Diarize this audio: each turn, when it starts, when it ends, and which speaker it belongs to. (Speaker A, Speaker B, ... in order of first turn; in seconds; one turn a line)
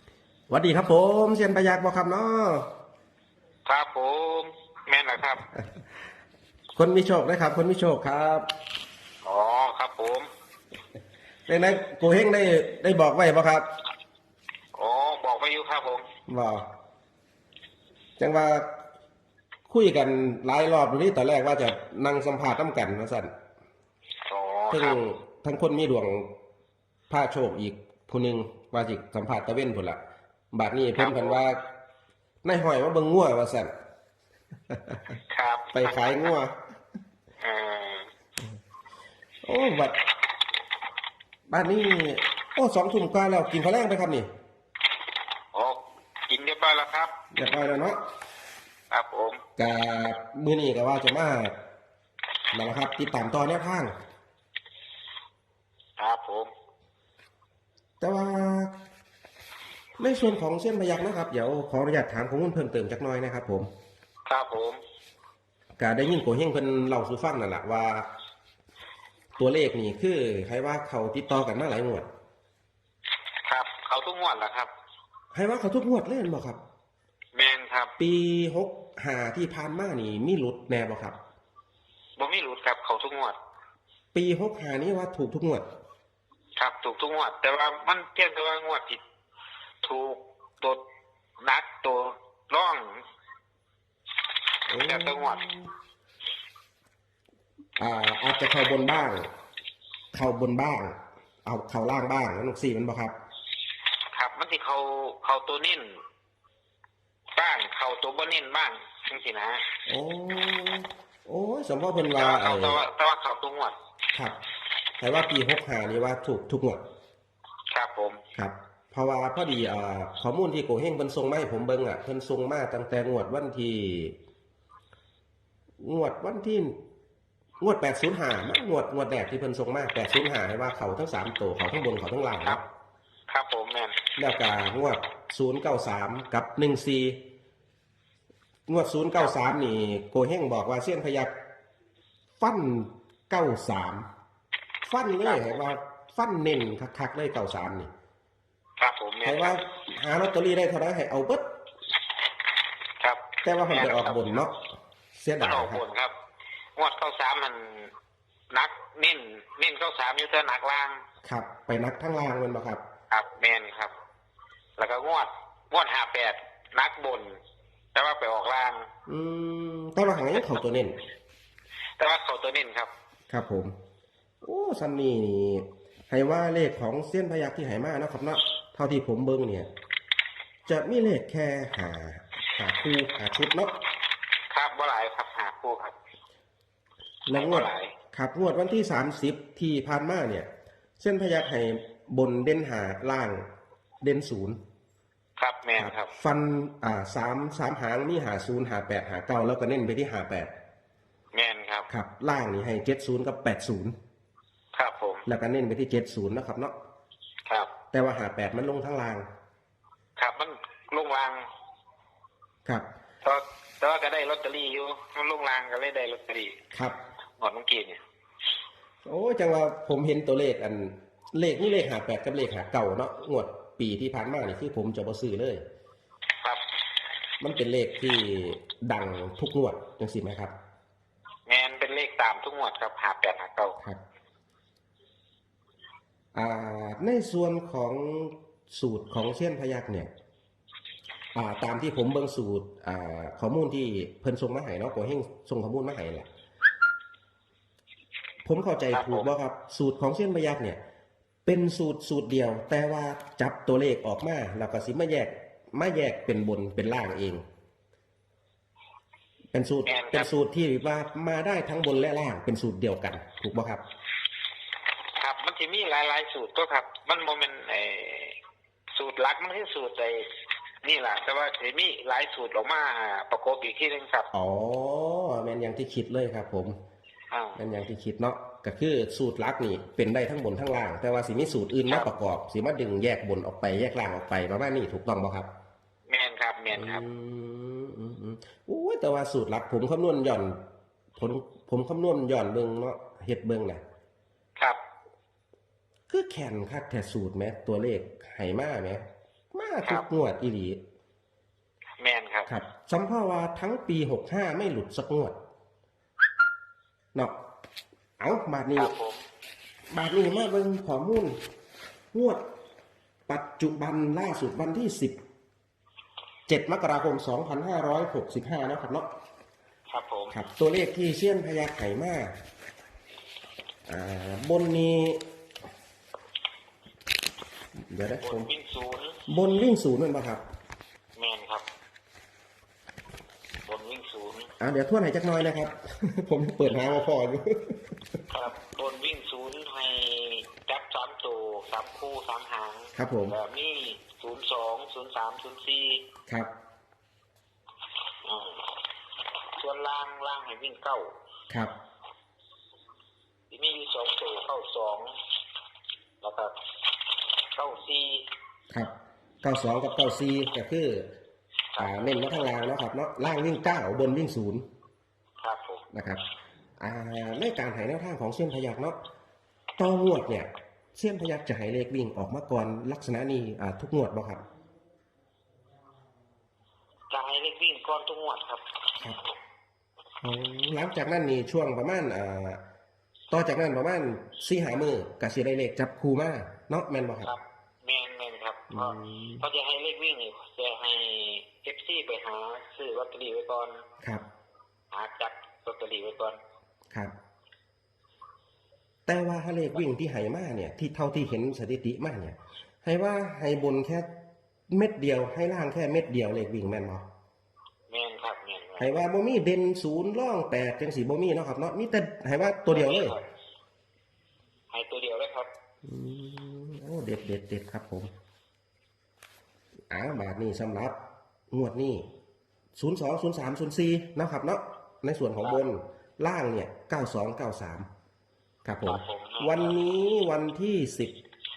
Speaker A: 0.5-2.7
Speaker B: 3.6-5.4
Speaker A: 6.8-8.5
Speaker B: 9.2-10.3
Speaker A: 11.5-13.7
Speaker B: 14.7-16.1
Speaker A: 16.3-16.6
Speaker A: 18.2-18.7
Speaker A: 19.7-23.3
Speaker B: 24.2-25.0
Speaker A: 24.7-26.3
Speaker A: 27.1-30.0
Speaker A: 30.5-31.6
Speaker B: 31.0-31.4
Speaker A: 32.4-33.7
Speaker A: 34.7-35.0
Speaker B: 35.3-36.0
Speaker A: 35.7-36.5
Speaker B: 37.4-38.1
Speaker A: 39.4-40.0
Speaker A: 41.5-44.3
Speaker B: 45.5-47.1
Speaker A: 47.3-48.0
Speaker B: 48.9-49.4
Speaker A: 49.6-51.5
Speaker A: 52.5-53.9
Speaker B: 56.0-56.5
Speaker A: 58.0-58.7
Speaker A: 60.0-63.7
Speaker B: 64.2-64.8
Speaker A: 65.8-68.1
Speaker A: 69.4-72.1
Speaker B: 73.4-74.7
Speaker A: 75.3-76.6
Speaker B: 77.3-77.9
Speaker A: 78.0-81.2
Speaker B: 82.2-83.4
Speaker A: 84.1-85.6
Speaker B: 86.5-89.0
Speaker B: 89.8-90.8
Speaker B: 91.4-93.0
Speaker A: 94.7-95.7
Speaker B: 94.7-95.4
Speaker A: 97.8-99.3
Speaker A: 100.1-103.1
Speaker B: 104.1-106.0
Speaker B: 107.3-109.6
Speaker A: 109.9-112.8
Speaker B: 112.0-113.8
Speaker A: 115.0-116.8
Speaker B: 117.7-118.2
Speaker A: 118.3-124.1
Speaker A: 125.8-126.8
Speaker A: 127.6-132.6
Speaker B: 133.3-134.0
Speaker A: 134.2-137.2
Speaker A: 138.7-141.3
Speaker A: 142.4-144.1
Speaker A: 144.8-147.9
Speaker B: 145.2-145.7
Speaker B: 148.8-149.6
Speaker A: 149.2-151.5
Speaker B: 153.0-154.2
Speaker A: 153.4-154.6
Speaker A: 155.2-155.8
Speaker B: 155.4-156.1
Speaker B: 156.8-157.9
Speaker B: 158.5-161.0
Speaker A: 161.2-162.8
Speaker B: 163.1-163.9
Speaker B: 164.8-167.4
Speaker B: 167.9-168.9
Speaker A: 169.1-170.9
Speaker B: 172.0-172.9
Speaker A: 173.3-173.7
Speaker A: 174.4-179.7
Speaker A: 180.7-183.7
Speaker B: 184.5-185.9
Speaker A: 187.3-190.5
Speaker B: 187.3-187.9
Speaker A: 191.0-193.4
Speaker A: 194.0-194.6
Speaker B: 195.4-196.1
Speaker A: 195.8-200.5
Speaker B: 201.3-201.9
Speaker A: 201.9-203.9
Speaker B: 204.7-205.2
Speaker A: 205.2-206.7
Speaker B: 207.4-207.7
Speaker A: 207.9-209.2
Speaker B: 210.2-211.5
Speaker B: 213.2-216.6
Speaker B: 217.4-218.0
Speaker A: 219.0-225.6
Speaker A: 227.4-230.5
Speaker B: 231.4-233.8
Speaker A: 236.3-240.1
Speaker A: 241.3-246.3
Speaker A: 248.4-250.8
Speaker B: 248.9-249.3
Speaker A: 251.4-257.4
Speaker A: 259.5-263.8
Speaker B: 259.9-260.3
Speaker B: 265.1-268.4
Speaker B: 268.9-270.3
Speaker B: 270.8-274.3
Speaker A: 274.3-276.7
Speaker B: 277.3-277.6
Speaker A: 277.6-285.5
Speaker B: 286.1-287.0
Speaker A: 286.7-290.6
Speaker A: 291.1-293.8
Speaker A: 296.1-299.0
Speaker A: 299.5-300.8
Speaker B: 302.0-302.5
Speaker A: 302.5-305.3
Speaker A: 308.2-308.9
Speaker B: 308.8-309.2
Speaker A: 309.9-311.4
Speaker A: 312.1-312.4
Speaker A: 313.3-315.1
Speaker A: 316.5-319.1
Speaker B: 319.9-320.3
Speaker A: 320.3-322.3
Speaker A: 323.9-325.2
Speaker A: 327.9-328.5
Speaker B: 328.2-329.2
Speaker A: 329.3-330.4
Speaker B: 331.1-331.7
Speaker B: 333.6-334.5
Speaker A: 334.6-337.9
Speaker B: 338.3-346.0
Speaker A: 342.9-343.4
Speaker B: 348.2-348.7
Speaker B: 349.6-351.1
Speaker B: 353.5-355.1
Speaker B: 356.2-356.5
Speaker B: 357.5-358.2
Speaker A: 359.4-361.1
Speaker B: 361.7-362.4
Speaker A: 361.8-364.6
Speaker B: 365.4-365.9
Speaker A: 365.9-366.2
Speaker A: 366.8-369.0
Speaker A: 369.8-374.4
Speaker B: 377.1-378.6
Speaker A: 380.2-382.6
Speaker A: 383.3-387.3
Speaker B: 387.2-393.8
Speaker A: 388.7-389.4
Speaker B: 394.9-396.4
Speaker A: 399.1-404.1
Speaker A: 404.7-407.0
Speaker B: 407.9-408.9
Speaker A: 408.8-413.1
Speaker B: 412.7-413.3
Speaker B: 414.7-415.5
Speaker A: 415.8-418.1
Speaker A: 419.9-420.9
Speaker A: 421.5-422.0
Speaker A: 422.8-427.9
Speaker A: 428.6-431.2
Speaker B: 428.8-429.8